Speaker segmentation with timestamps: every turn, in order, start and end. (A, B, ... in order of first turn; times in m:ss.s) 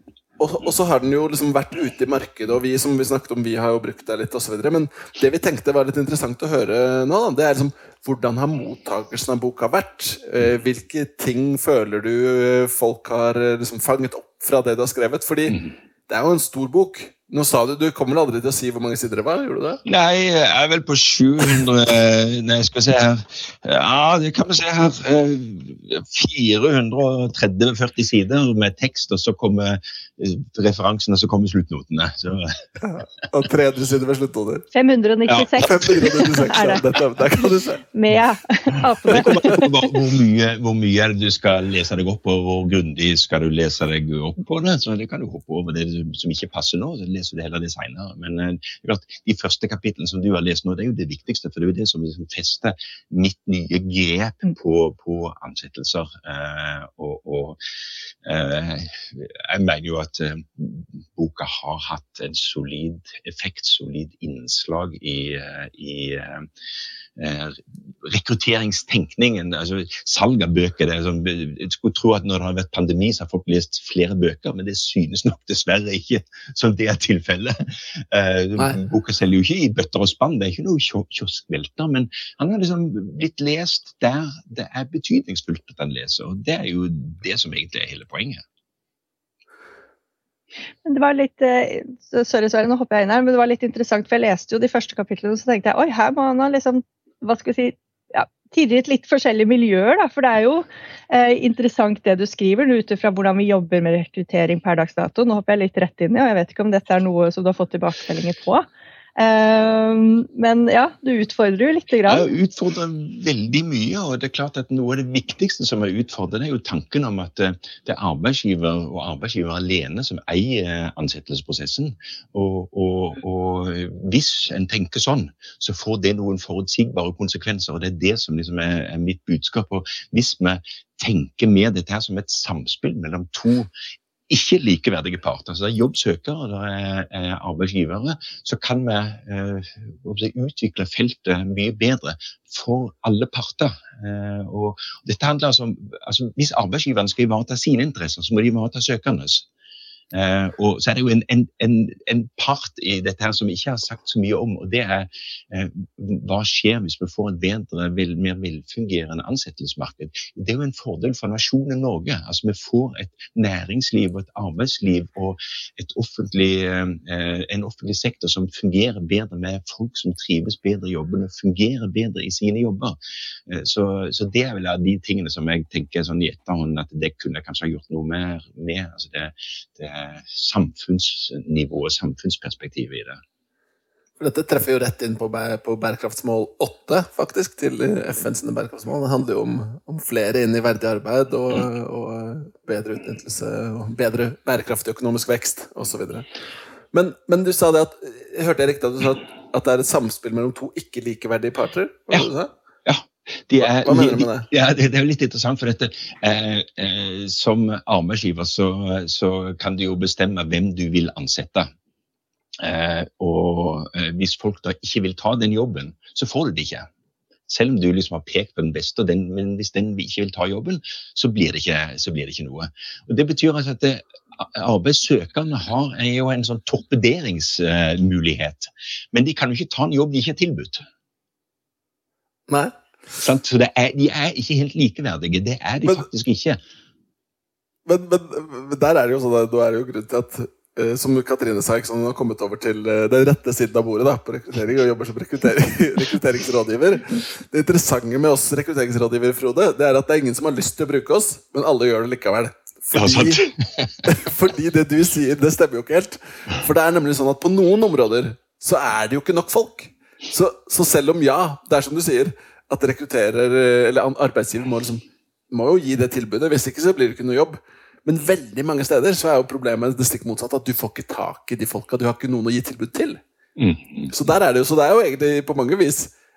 0:00.4-0:19.8 A
0:19.8-0:32.6 B
0:32.8-0:34.6 A
0:34.7-0:36.8 C
0:35.5-0:37.8 A
0:37.9-0:39.7 C
0:39.0-0:57.6 B
0:58.2-1:06.5 B
1:07.2-1:28.4 B
1:30.8-1:48.6 C
1:49.2-1:52.2 C
1:52.0-2:13.7 B
2:14.3-2:29.4 B
2:30.1-3:03.2 B
3:04.2-3:16.3 A
3:16.9-3:22.5 A
3:22.8-3:31.7 B
3:23.6-3:24.5 A
3:32.6-3:36.9 B
3:37.5-3:50.8 B
3:52.5-3:52.7 A
3:53.2-3:56.6 B
3:57.8-4:13.5 A
4:12.9-4:13.9 B
4:14.0-4:33.2 A
4:33.6-4:34.1 B
4:34.1-4:36.1 A